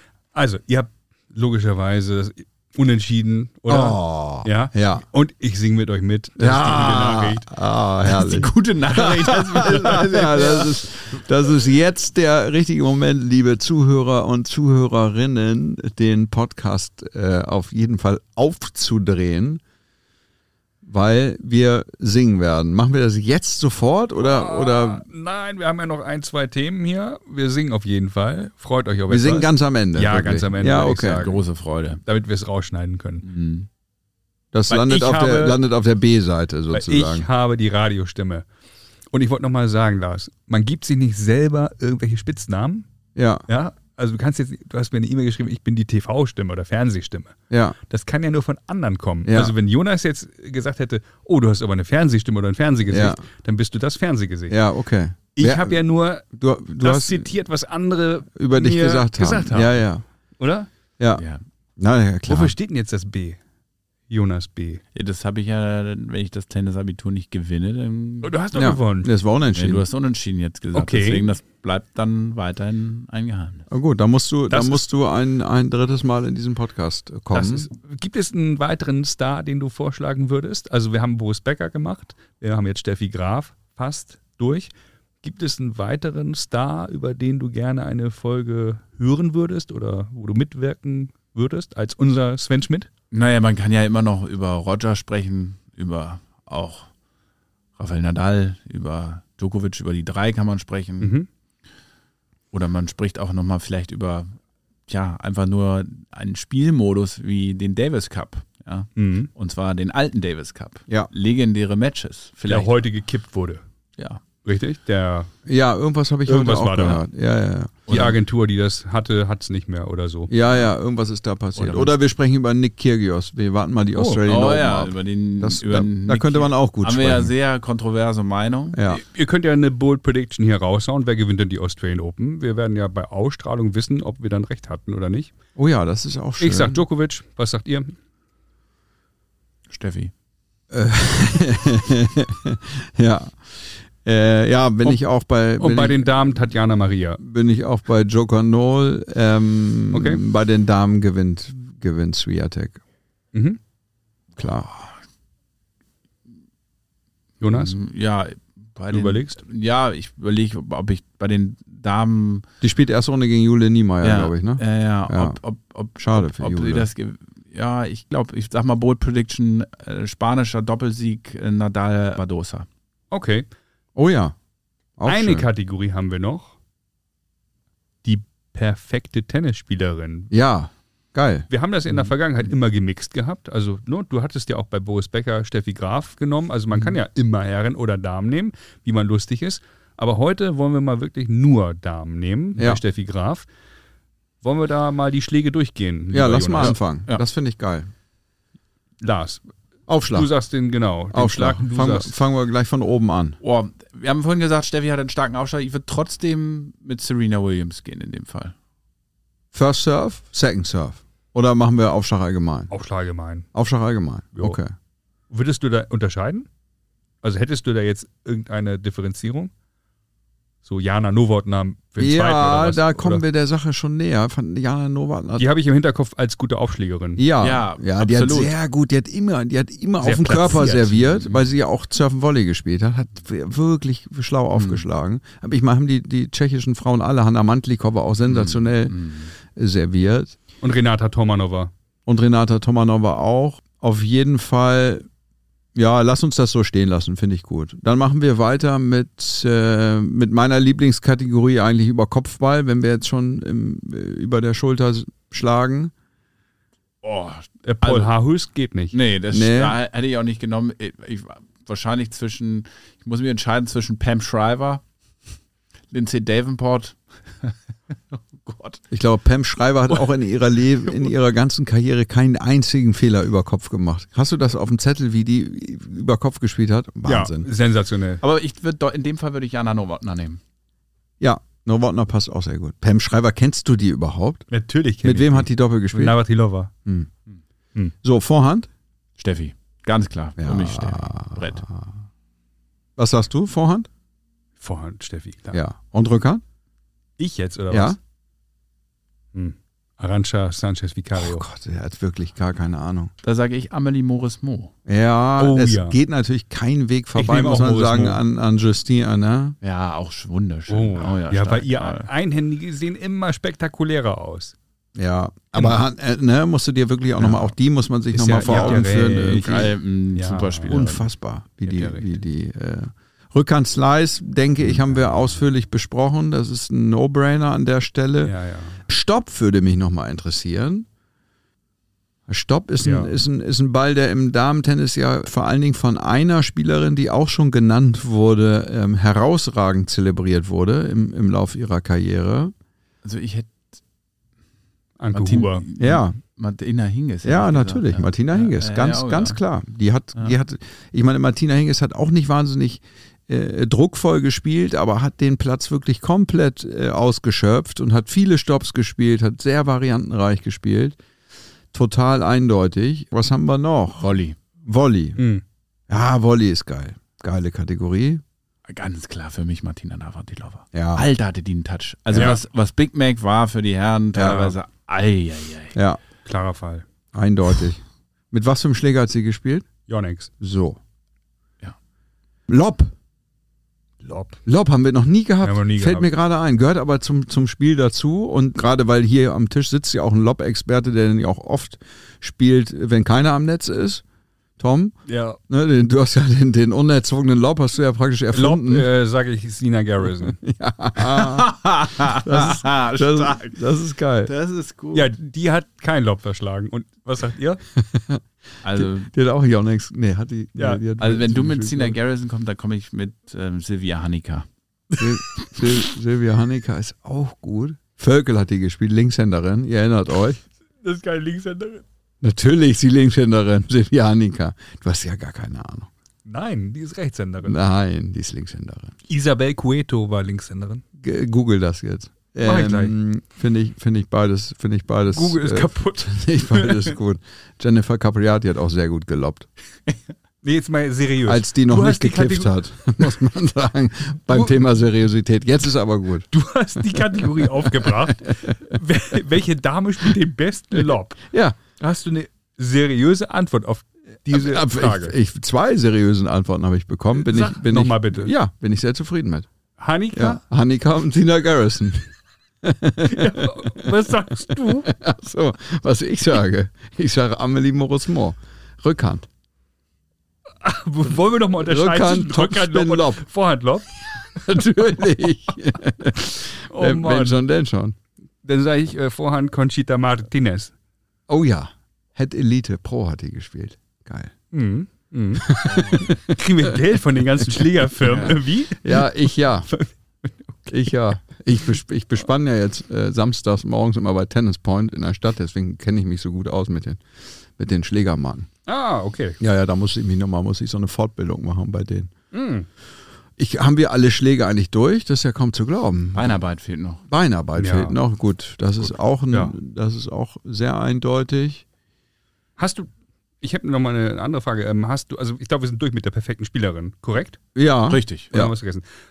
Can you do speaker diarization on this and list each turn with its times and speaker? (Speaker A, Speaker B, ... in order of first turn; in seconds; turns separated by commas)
Speaker A: 0.3-7.5, Speaker B: 3.7-5.0, Speaker B: 6.4-19.6, Speaker C: 8.1-10.8, Speaker B: 20.8-25.0, Speaker A: 24.2-31.4, Speaker B: 29.1-31.2, Speaker C: 31.2-32.0, Speaker A: 32.0-33.3, Speaker C: 33.2-33.7, Speaker B: 34.5-37.3, Speaker A: 34.7-35.6, Speaker A: 36.7-38.4, Speaker A: 39.1-42.9, Speaker B: 43.1-43.4, Speaker A: 43.5-47.4, Speaker B: 47.5-47.8, Speaker A: 47.9-54.6, Speaker B: 49.2-49.5, Speaker B: 52.9-53.2, Speaker B: 54.5-57.3, Speaker A: 55.4-56.2, Speaker A: 56.8-59.8, Speaker B: 58.4-60.0, Speaker A: 60.4-60.7, Speaker C: 61.2-61.4, Speaker B: 61.8-62.5, Speaker A: 62.3-63.4, Speaker A: 64.1-64.8, Speaker C: 64.9-68.3, Speaker A: 68.2-69.1, Speaker B: 68.5-69.8, Speaker C: 69.5-73.7, Speaker A: 70.7-71.3, Speaker B: 73.7-77.7, Speaker A: 74.5-74.8, Speaker A: 77.3-84.7, Speaker A: 85.2-92.9, Speaker C: 93.1-96.9, Speaker C: 97.8-101.1, Speaker A: 101.0-101.3, Speaker C: 102.5-104.3, Speaker C: 104.9-112.7, Speaker A: 109.0-109.3, Speaker A: 112.5-113.6, Speaker A: 114.4-115.3, Speaker B: 115.4-117.8, Speaker A: 116.3-117.0, Speaker C: 117.9-118.2, Speaker A: 117.9-120.3, Speaker B: 120.3-127.3, Speaker C: 121.5-121.9, Speaker A: 123.9-124.2, Speaker C: 124.2-128.8, Speaker B: 128.7-129.0, Speaker A: 128.9-135.3, Speaker B: 135.6-136.8, Speaker A: 136.4-137.9, Speaker C: 139.7-140.1, Speaker B: 140.7-146.0, Speaker A: 145.6-147.2, Speaker B: 147.2-152.8, Speaker A: 149.9-150.2, Speaker A: 153.3-153.6, Speaker B: 154.4-154.7, Speaker A: 157.4-157.7, Speaker C: 157.5-162.5, Speaker A: 158.9-159.4, Speaker B: 162.6-165.4, Speaker C: 164.0-172.7, Speaker B: 166.0-166.9, Speaker A: 173.1-173.5, Speaker B: 173.9-174.3, Speaker B: 175.0-175.4, Speaker A: 175.0-176.5, Speaker A: 178.0-180.3, Speaker B: 180.3-181.5, Speaker A: 181.5-193.5, Speaker B: 192.6-192.8, Speaker A: 194.4-196.8, Speaker B: 196.1-197.9, Speaker C: 196.6-197.2, Speaker A: 199.0-199.4, Speaker B: 199.9-200.3, Speaker A: 200.1-202.2, Speaker B: 201.1-203.4, Speaker C: 203.4-208.5, Speaker B: 209.5-212.7, Speaker A: 212.7-213.5, Speaker B: 213.5-214.7, Speaker A: 214.3-214.6, Speaker A: 215.3-216.5, Speaker A: 217.2-219.5, Speaker A: 220.6-223.2, Speaker B: 222.0-225.5, Speaker A: 225.4-227.2, Speaker B: 227.2-240.3, Speaker C: 227.4-228.5, Speaker A: 230.0-231.2, Speaker C: 234.5-234.9, Speaker C: 238.3-239.3, Speaker A: 240.6-241.7, Speaker B: 242.1-245.1, Speaker B: 245.7-255.9, Speaker C: 257.0-258.1, Speaker A: 257.6-258.9, Speaker C: 258.9-264.8, Speaker B: 259.3-259.8, Speaker C: 265.9-268.8, Speaker B: 268.9-277.5, Speaker A: 277.0-278.2, Speaker C: 278.2-280.4, Speaker B: 281.2-284.5, Speaker A: 284.5-286.7, Speaker B: 285.0-286.2, Speaker B: 288.0-288.7, Speaker C: 289.2-291.7, Speaker B: 290.4-291.9, Speaker B: 293.0-293.9, Speaker A: 294.6-295.6, Speaker B: 295.5-296.4, Speaker A: 297.2-298.0, Speaker B: 297.7-298.0, Speaker A: 299.3-301.4, Speaker B: 301.1-303.1, Speaker C: 303.2-304.7, Speaker B: 304.9-309.6, Speaker A: 305.4-306.0, Speaker A: 307.1-308.2, Speaker C: 309.6-312.1, Speaker A: 310.7-314.6, Speaker B: 314.9-319.7, Speaker C: 317.2-317.5, Speaker A: 318.1-320.8, Speaker C: 318.3-321.1, Speaker B: 320.7-328.3, Speaker A: 321.6-322.1, Speaker A: 328.2-328.8, Speaker B: 328.9-330.9, Speaker B: 332.3-342.5, Speaker A: 332.8-333.2, Speaker C: 343.0-343.7, Speaker A: 345.0-345.6, Speaker C: 345.1-349.4, Speaker B: 345.8-346.2, Speaker B: 347.2-361.0, Speaker B: 361.7-364.1, Speaker C: 364.0-364.4, Speaker B: 364.6-365.2, Speaker A: 365.2-365.4, Speaker B: 365.9-368.2, Speaker C: 368.7-375.8, Speaker B: 370.7-371.1, Speaker A: 372.1-372.4, Speaker B: 374.1-374.5, Speaker B: 375.7-376.0, Speaker A: 376.2-376.8, Speaker B: 377.1-379.7, Speaker A: 379.9-380.3, Speaker B: 380.4-380.8, Speaker B: 382.5-382.9, Speaker A: 384.0-384.4, Speaker B: 384.4-394.0, Speaker A: 385.4-386.1, Speaker B: 394.6-394.9, Speaker A: 395.1-395.4, Speaker B: 395.5-398.9, Speaker A: 398.3-400.4, Speaker B: 400.4-404.3, Speaker C: 401.0-403.6, Speaker C: 404.2-405.1, Speaker A: 404.9-407.6, Speaker B: 407.7-412.0, Speaker C: 408.6-409.1, Speaker A: 410.6-410.8, Speaker C: 411.0-414.5, Speaker B: 415.0-420.4, Speaker A: 420.8-421.8, Speaker B: 422.2-425.9, Speaker A: 426.2-427.6, Speaker B: 427.4-428.9, Speaker A: 429.1-430.8, Speaker B: 431.0-439.5, Speaker A: 432.4-432.9, Speaker A: 435.1-436.9, Speaker A: 440.4-442.5, Speaker B: 441.2-446.3, Speaker A: 446.3-451.2, Speaker B: 446.9-448.4, Speaker B: 451.2-451.6, Speaker A: 451.8-455.1, Speaker B: 454.3-459.5, Speaker A: 457.1-458.3, Speaker A: 459.8-460.4, Speaker B: 460.1-462.1, Speaker B: 462.6-464.1, Speaker A: 463.0-464.9, Speaker B: 464.6-469.3, Speaker A: 470.6-473.9, Speaker B: 471.6-473.2, Speaker B: 474.4-477.9, Speaker A: 476.6-477.4, Speaker A: 478.4-480.7, Speaker B: 481.3-484.3, Speaker A: 484.5-489.9, Speaker B: 485.4-486.7, Speaker B: 488.0-489.7, Speaker B: 490.7-497.0, Speaker B: 497.6-498.5, Speaker A: 498.6-499.4, Speaker B: 499.4-502.1, Speaker A: 502.3-502.7, Speaker B: 503.4-506.4, Speaker C: 506.1-507.0, Speaker B: 507.1-511.6, Speaker A: 507.6-508.0, Speaker A: 512.6-512.9, Speaker A: 513.4-517.4, Speaker B: 517.5-518.5, Speaker C: 517.9-518.3, Speaker A: 518.3-518.8